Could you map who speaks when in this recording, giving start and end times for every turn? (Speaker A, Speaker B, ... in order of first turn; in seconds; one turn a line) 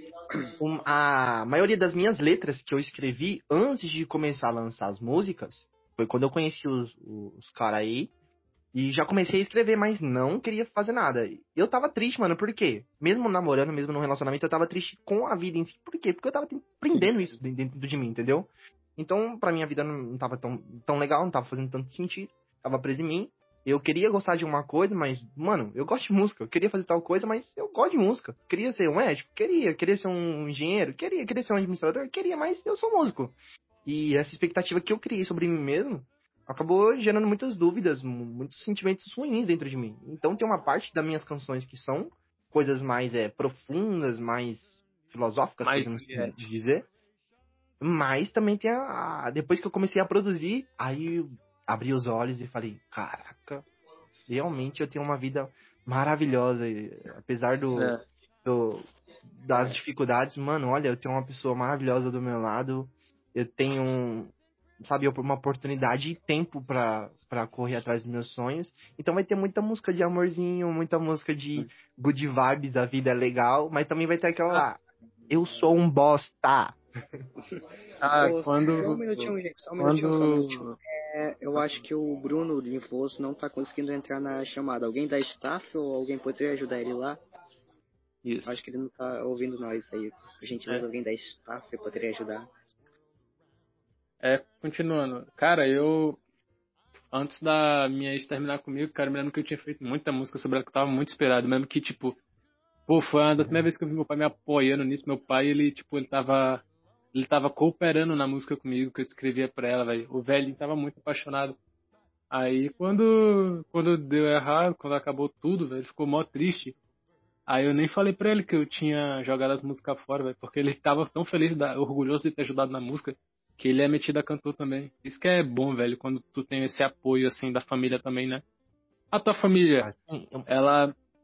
Speaker A: 0.6-8.1
Speaker A: 8.7-46.9
Speaker B: 45.6-46.4
Speaker A: 47.8-53.6
Speaker A: 54.3-58.8
Speaker B: 57.8-58.0
Speaker A: 59.4-76.8
Speaker B: 78.0-80.8
Speaker C: 78.2-87.2
Speaker B: 88.2-88.6
Speaker C: 88.5-92.5
Speaker B: 94.2-96.2
Speaker B: 97.1-102.2
Speaker B: 102.9-111.6
Speaker B: 112.3-116.7
Speaker B: 117.5-128.4
Speaker B: 129.1-129.9
Speaker A: 129.8-130.5
Speaker B: 130.5-130.9